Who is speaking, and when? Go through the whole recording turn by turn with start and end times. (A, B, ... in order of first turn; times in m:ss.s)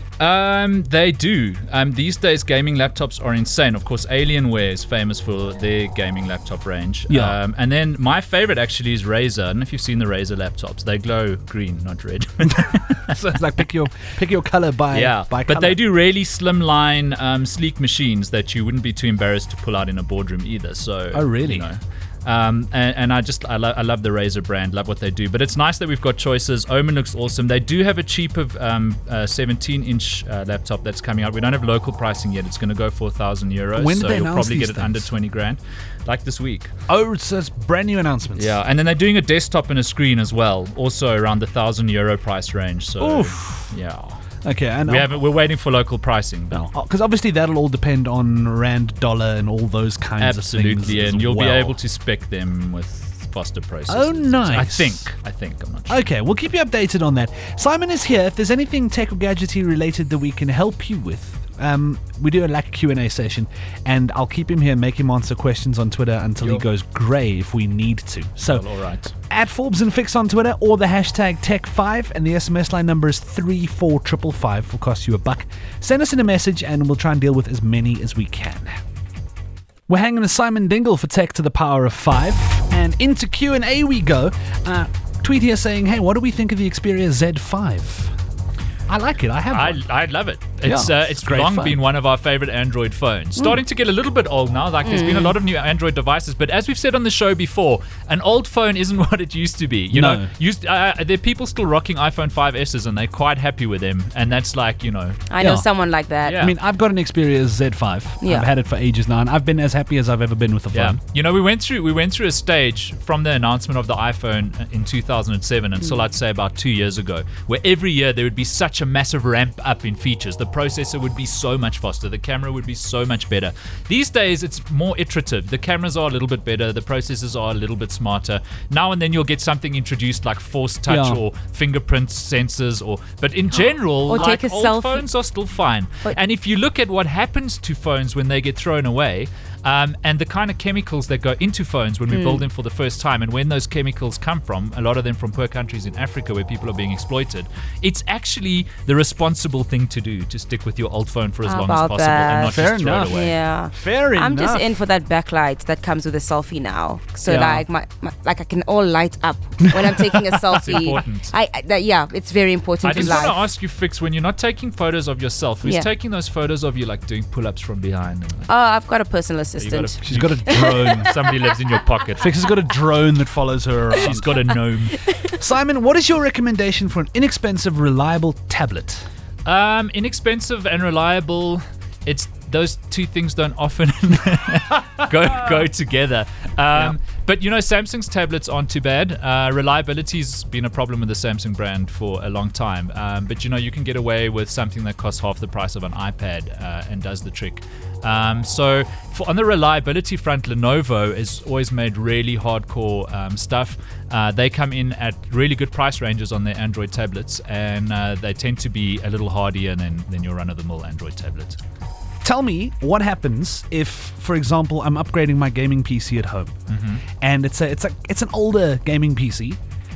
0:00.2-0:13.2 A
0:07.1-0:07.4 B
0:12.5-0:15.8 B
0:14.9-0:36.7 A
0:21.1-0:21.7 B
0:33.8-0:35.1 B
0:36.9-0:38.6 B
0:38.4-0:44.2 A
0:43.0-0:43.7 B
0:44.4-0:45.3 B
0:44.8-0:46.7 A
0:46.5-0:51.8 B
0:50.2-0:56.1 A
0:53.9-0:55.1 B
0:55.9-1:08.7 B
1:06.4-1:06.7 A
1:08.5-1:09.1 A
1:09.3-1:18.8 B
1:19.9-1:28.2 B
1:28.9-1:29.9 B
1:29.5-1:45.2 A
1:30.6-1:31.8 B
1:34.9-1:35.4 C
1:39.9-1:40.3 B
1:45.3-1:46.4 C
1:45.4-1:45.7 B
1:46.2-1:46.6 A
1:46.4-1:51.0 B
1:50.7-2:33.4 A
2:10.9-2:11.2 B
2:14.0-2:15.1 C
2:22.1-2:22.4 C
2:31.4-2:43.5 C
2:32.4-2:33.2 B
2:33.7-2:34.7 B
2:37.2-2:37.6 B
2:39.8-2:40.4 B
2:40.6-2:41.4 A
2:42.8-2:48.5 A
2:42.9-2:43.3 B
2:45.6-2:45.9 C
2:48.5-2:51.2 C
2:49.6-2:52.5 A
2:50.0-2:51.2 B
2:52.2-2:54.6 B
2:53.9-2:55.1 A
2:55.3-2:59.1 B
2:59.4-3:31.6 A
3:32.2-3:36.6 B
3:36.7-3:37.0 A
3:37.2-3:39.6 B